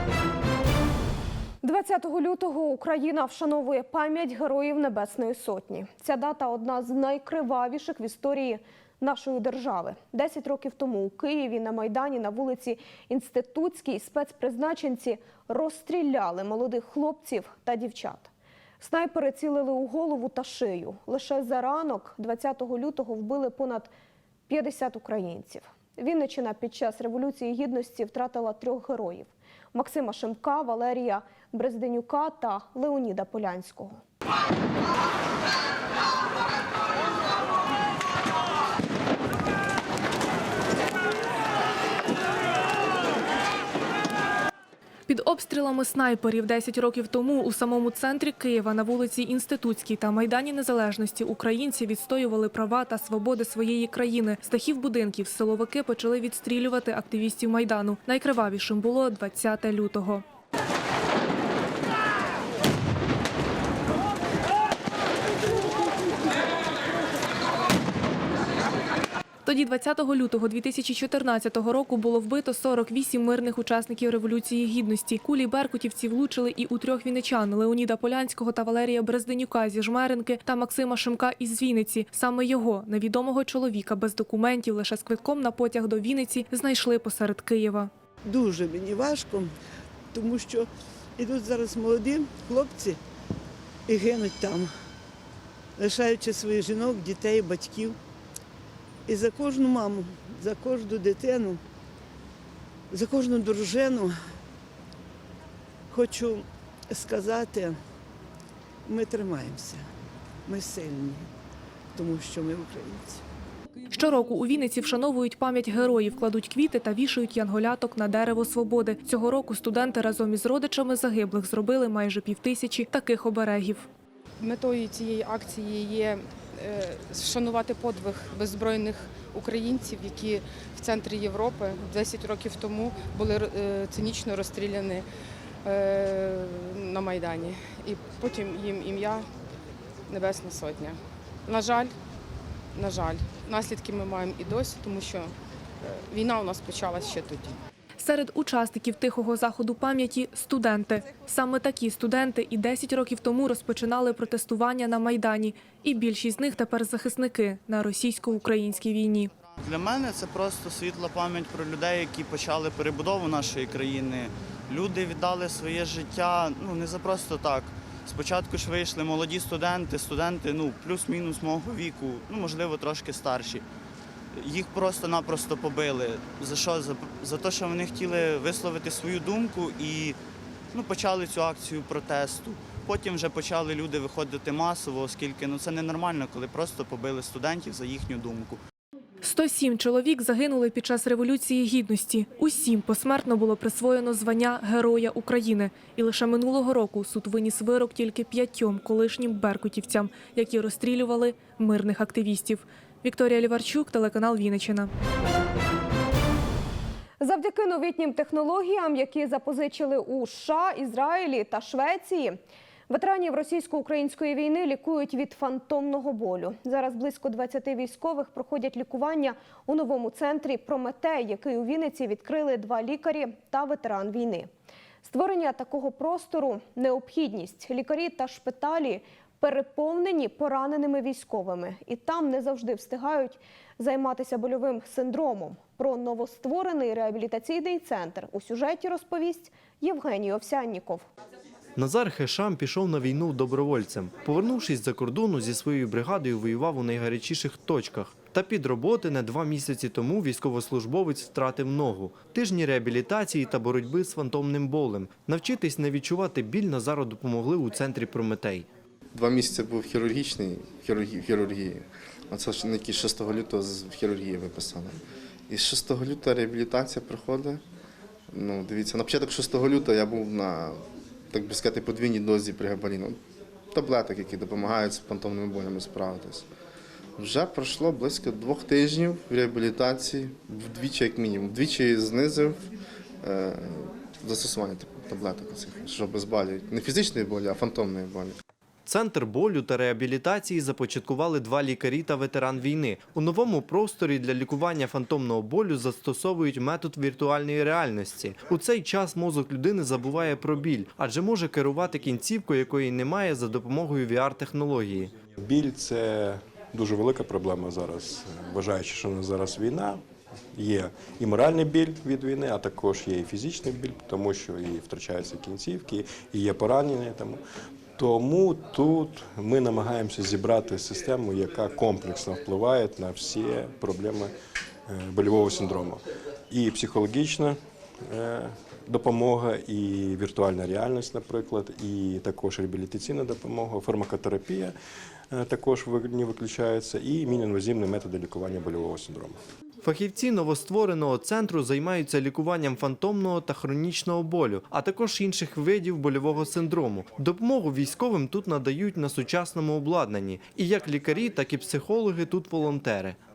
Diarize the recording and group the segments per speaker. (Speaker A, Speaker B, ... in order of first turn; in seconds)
Speaker A: 1.6-23.9, 24.5-34.0, 207.2-224.5, 225.0-241.1
Speaker B: 45.1-60.2, 69.5-87.9, 113.9-123.9, 148.0-159.3, 189.2-204.9
Speaker C: 88.2-89.5, 90.1-93.0, 93.9-94.7, 95.8-98.0, 99.1-101.6, 102.9-104.1, 105.9-107.8, 108.9-109.8, 110.5-111.3, 112.0-113.2
Speaker D: 124.4-135.1, 135.6-139.3, 140.1-142.0, 142.7-147.6
Speaker E: 159.6-173.7, 174.3-180.2, 180.7-188.6
Speaker F: 241.8-258.7, 288.9-305.1, 339.8-353.2
Speaker G: 259.1-265.0, 265.5-267.6, 268.3-270.8, 271.3-273.2, 273.7-276.4, 277.2-282.6, 283.2-288.3
Speaker H: 305.4-310.0, 310.6-317.4, 318.0-324.3, 324.9-326.0, 326.5-327.6, 328.1-334.7, 335.3-339.4